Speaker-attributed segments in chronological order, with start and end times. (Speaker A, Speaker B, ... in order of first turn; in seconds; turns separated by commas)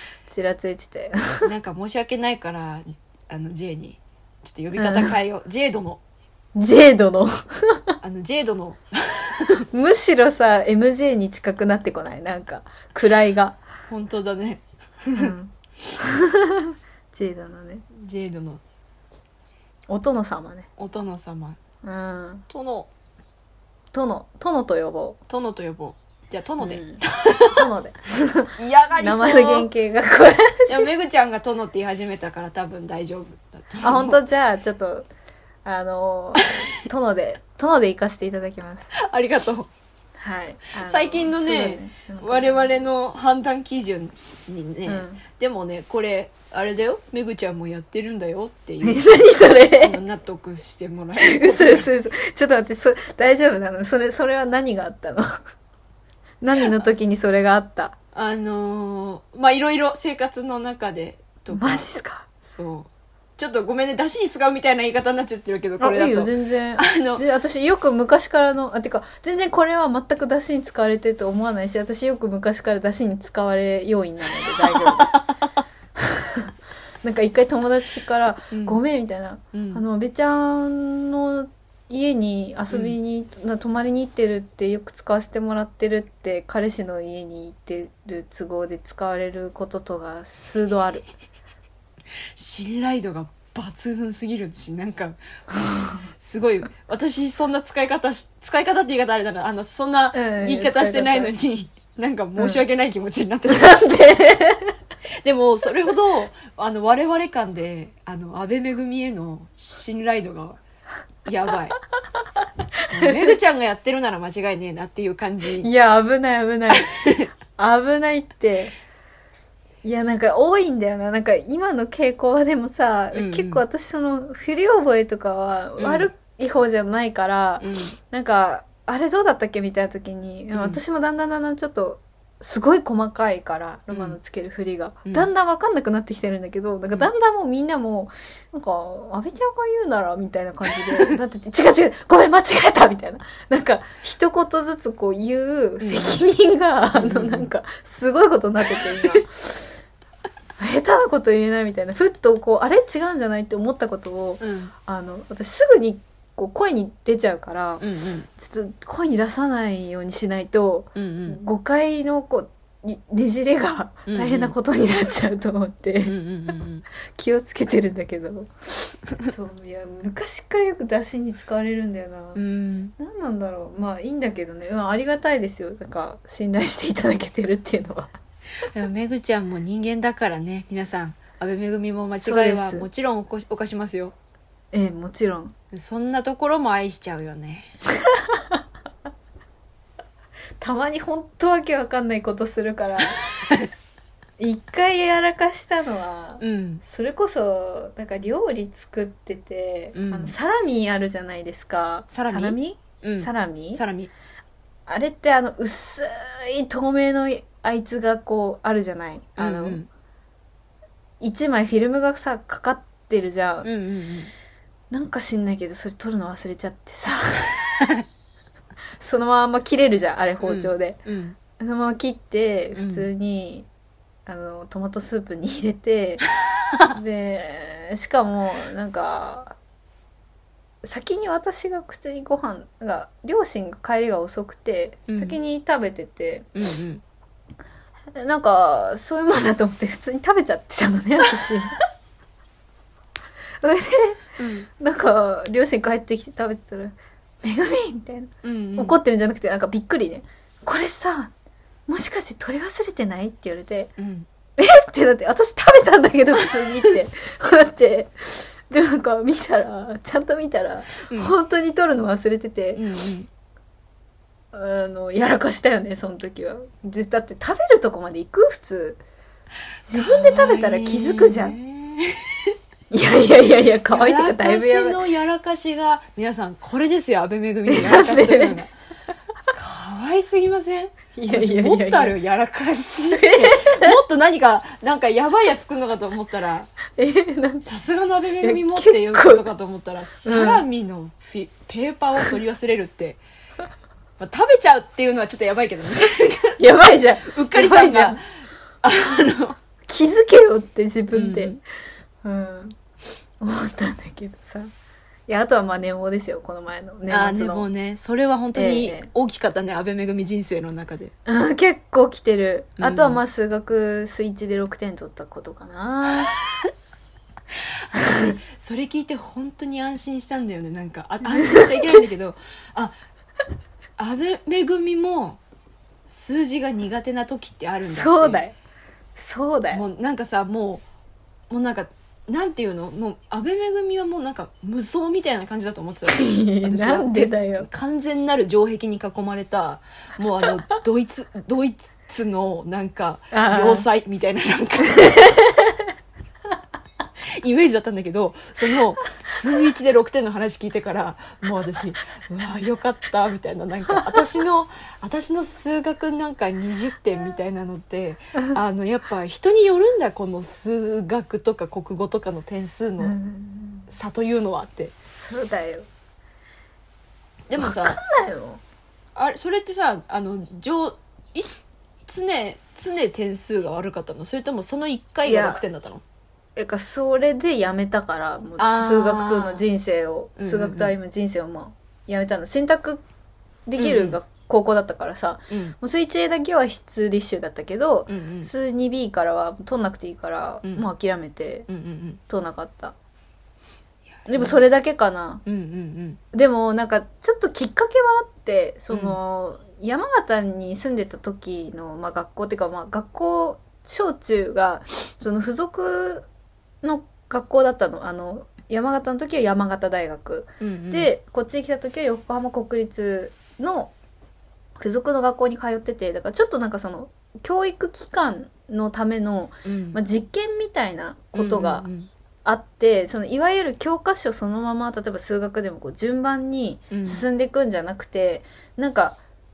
Speaker A: 0.3-1.5, Speaker B: 1.4-6.0, Speaker A: 4.8-5.1, Speaker A: 6.5-8.0, Speaker B: 8.0-9.7, Speaker A: 9.7-13.6, Speaker B: 13.9-15.3, Speaker A: 15.2-17.8, Speaker B: 17.9-18.6, Speaker A: 19.9-20.7, Speaker B: 20.8-21.6, Speaker A: 21.8-22.4, Speaker B: 22.5-22.9, Speaker A: 23.9-25.2, Speaker B: 25.3-27.7, Speaker A: 26.6-30.9, Speaker B: 28.6-29.7, Speaker B: 30.7-34.2, Speaker A: 33.8-35.1, Speaker A: 35.6-38.9, Speaker B: 38.9-39.7, Speaker A: 40.2-42.7, Speaker B: 40.8-51.9, Speaker A: 44.9-45.2, Speaker A: 48.8-50.0, Speaker A: 51.2-55.4, Speaker A: 56.4-58.0, Speaker B: 58.1-61.9, Speaker A: 61.5-62.3, Speaker B: 62.4-67.2, Speaker A: 65.8-75.2, Speaker B: 74.6-75.3, Speaker A: 76.0-91.0, Speaker B: 78.5-78.8, Speaker B: 79.5-79.8, Speaker B: 82.7-83.0, Speaker B: 92.3-95.2, Speaker A: 95.5-96.1, Speaker B: 96.2-103.8, Speaker A: 100.1-101.3, Speaker A: 102.4-102.6, Speaker A: 103.5-104.8, Speaker B: 105.2-110.6, Speaker B: 111.2-111.8, Speaker A: 112.8-113.3, Speaker B: 112.9-115.7, Speaker A: 115.6-116.9, Speaker B: 116.7-117.3, Speaker A: 117.5-118.7, Speaker A: 119.8-149.5, Speaker B: 123.1-123.6, Speaker B: 125.8-126.1, Speaker B: 127.6-128.0, Speaker B: 130.5-130.8, Speaker B: 133.9-134.2, Speaker B: 145.8-146.2, Speaker B: 146.9-147.5, Speaker A: 150.6-157.8, Speaker B: 154.4-154.7, Speaker B: 157.8-158.3, Speaker A: 158.3-166.1, Speaker B: 160.9-161.4, Speaker B: 164.1-164.5, Speaker B: 166.0-166.8, Speaker A: 167.1-168.5, Speaker A: 169.1-172.4, Speaker B: 172.3-172.9, Speaker A: 173.0-178.1, Speaker B: 178.7-184.1, Speaker A: 182.2-182.9, Speaker A: 184.7-185.5, Speaker B: 185.7-187.7, Speaker A: 188.0-188.6, Speaker A: 190.6-193.2, Speaker B: 193.4-193.7, Speaker A: 194.4-203.8, Speaker B: 196.4-196.8, Speaker B: 199.9-200.3, Speaker B: 202.1-204.1, Speaker A: 204.9-209.8, Speaker B: 209.4-209.9, Speaker A: 211.2-213.7, Speaker B: 213.6-214.3, Speaker A: 214.9-217.6, Speaker B: 217.8-218.0, Speaker A: 219.0-221.0, Speaker B: 220.4-221.4, Speaker A: 221.6-223.7, Speaker B: 222.7-223.1, Speaker A: 224.2-226.2, Speaker A: 226.9-229.5, Speaker A: 230.8-236.5, Speaker B: 235.1-235.4, Speaker B: 236.5-237.0, Speaker A: 238.1-241.8, Speaker A: 243.6-244.2, Speaker B: 244.4-244.7, Speaker A: 244.8-251.3, Speaker B: 248.4-249.0, Speaker A: 251.9-253.9, Speaker B: 254.0-254.3, Speaker A: 254.6-262.8, Speaker B: 261.1-261.3, Speaker B: 262.7-263.3, Speaker A: 264.5-269.0, Speaker A: 269.9-271.6, Speaker B: 269.9-272.6, Speaker A: 272.9-275.0, Speaker B: 273.9-278.7, Speaker A: 277.7-278.6, Speaker B: 279.5-286.7, Speaker A: 281.1-282.1, Speaker A: 283.1-283.9, Speaker A: 287.0-287.7, Speaker B: 287.6-293.2, Speaker A: 288.4-289.5, Speaker A: 290.2-290.6, Speaker B: 294.2-296.6, Speaker A: 296.6-298.2, Speaker B: 297.2-298.2, Speaker B: 298.8-299.6, Speaker A: 299.9-301.6, Speaker B: 301.1-301.6, Speaker A: 302.2-302.8, Speaker A: 303.4-304.7, Speaker A: 305.3-307.7, Speaker B: 307.1-311.1, Speaker A: 308.5-309.1, Speaker A: 311.2-316.4, Speaker B: 312.8-313.2, Speaker B: 317.9-322.9, Speaker A: 317.9-318.4, Speaker A: 321.2-322.1, Speaker B: 324.0-325.4, Speaker B: 326.1-328.4, Speaker A: 327.9-328.5, Speaker A: 329.2-329.8, Speaker B: 329.7-330.8, Speaker B: 331.5-345.2, Speaker A: 336.1-337.7, Speaker A: 343.3-343.9, Speaker A: 345.0-345.9, Speaker B: 347.4-363.1, Speaker A: 363.0-363.9, Speaker B: 363.9-364.9, Speaker A: 365.0-365.9, Speaker B: 367.5-368.0, Speaker A: 367.6-368.6, Speaker B: 369.1-371.5, Speaker B: 372.1-376.0, Speaker A: 375.2-375.6, Speaker A: 376.6-383.0, Speaker B: 378.6-379.6, Speaker B: 380.4-380.9, Speaker A: 383.7-391.7, Speaker B: 383.8-384.2, Speaker B: 385.5-385.8, Speaker B: 388.1-388.5, Speaker B: 390.6-390.9, Speaker B: 391.7-392.2, Speaker A: 392.3-392.9, Speaker B: 394.1-394.6, Speaker A: 394.3-395.4, Speaker B: 395.4-396.2, Speaker A: 396.3-406.3, Speaker B: 398.9-399.2, Speaker A: 406.8-413.9, Speaker B: 410.6-411.1, Speaker A: 414.8-421.9, Speaker B: 419.6-420.0, Speaker B: 421.3-422.1, Speaker A: 422.4-429.2, Speaker B: 426.9-427.2